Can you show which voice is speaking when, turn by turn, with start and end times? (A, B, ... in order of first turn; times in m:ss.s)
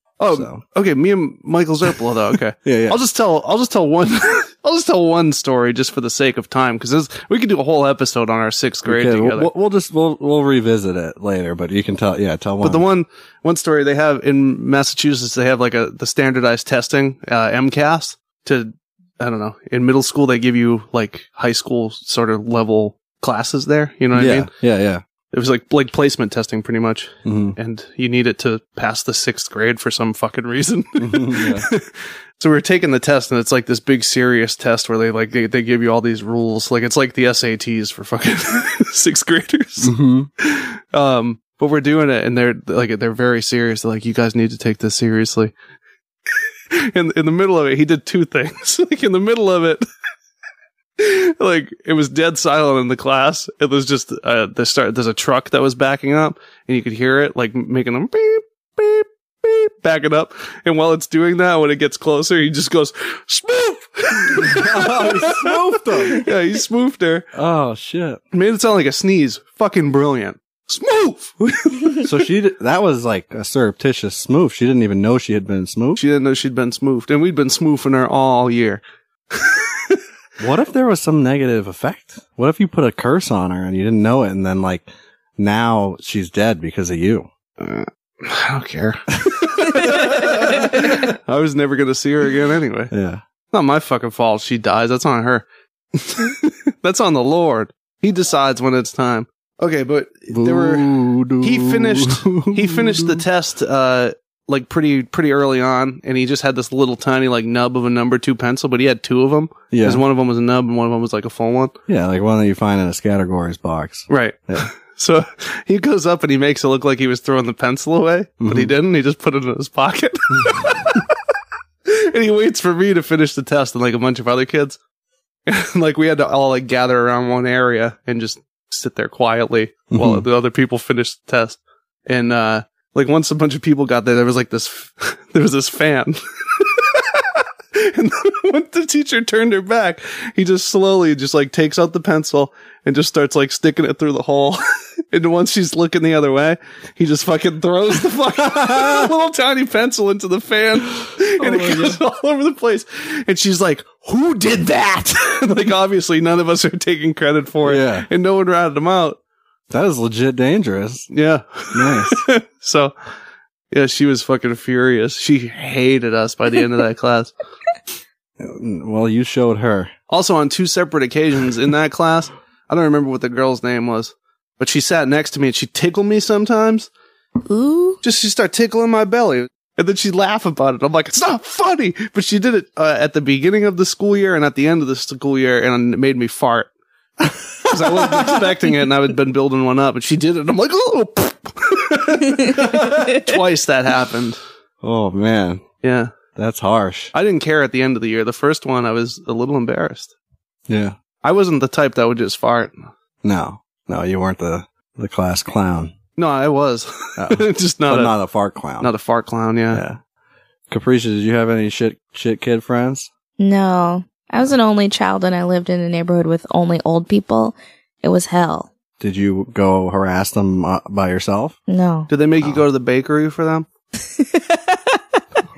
0:00.2-0:09.5 A
0:00.3-0:00.6 B
0:02.6-0:03.0 B
0:08.9-0:12.8 B
0:12.6-0:24.5 A
0:24.1-0:25.0 B
0:25.3-0:45.5 A
0:27.2-0:27.6 B
0:31.0-0:31.7 B
0:39.8-0:40.3 B
0:46.3-0:49.8 A
0:51.0-1:07.3 A
1:04.4-1:06.3 B
1:07.4-1:08.2 B
1:08.3-1:12.1 A
1:11.9-1:16.0 B
1:16.0-1:20.0 A
1:20.4-1:27.3 B
1:27.6-1:32.9 A
1:29.7-1:30.1 B
1:32.9-1:33.2 B
1:33.5-1:51.7 A
1:40.3-1:43.2 B
1:49.7-1:50.0 B
1:51.9-1:54.7 B
1:54.1-2:01.3 A
1:58.4-1:58.7 B
2:01.8-2:04.8 A
2:05.4-2:39.2 A
2:09.9-2:10.2 B
2:31.4-2:32.0 B
2:37.6-2:38.0 B
2:39.7-2:41.1 B
2:41.1-2:42.9 A
2:41.7-2:42.2 B
2:43.7-2:47.3 A
2:48.4-2:49.9 B
2:50.1-2:56.9 A
2:57.4-2:58.0 C
2:58.0-3:06.7 A
3:07.6-3:08.4 B
3:07.7-3:14.4 A
3:14.8-3:15.6 B
3:15.8-3:16.1 A
3:16.3-3:17.1 B
3:17.1-3:20.1 A
3:20.7-3:20.9 B
3:21.2-3:22.9 A
3:23.2-3:25.9 B
3:26.2-3:28.1 A
3:27.2-3:28.9 B
3:28.8-3:29.8 A
3:29.7-3:30.0 B
3:30.7-3:33.1 B
3:33.4-3:38.7 C
3:39.0-3:41.6 B
3:41.7-3:42.1 C
3:42.1-3:43.7 A
3:44.0-3:45.2 C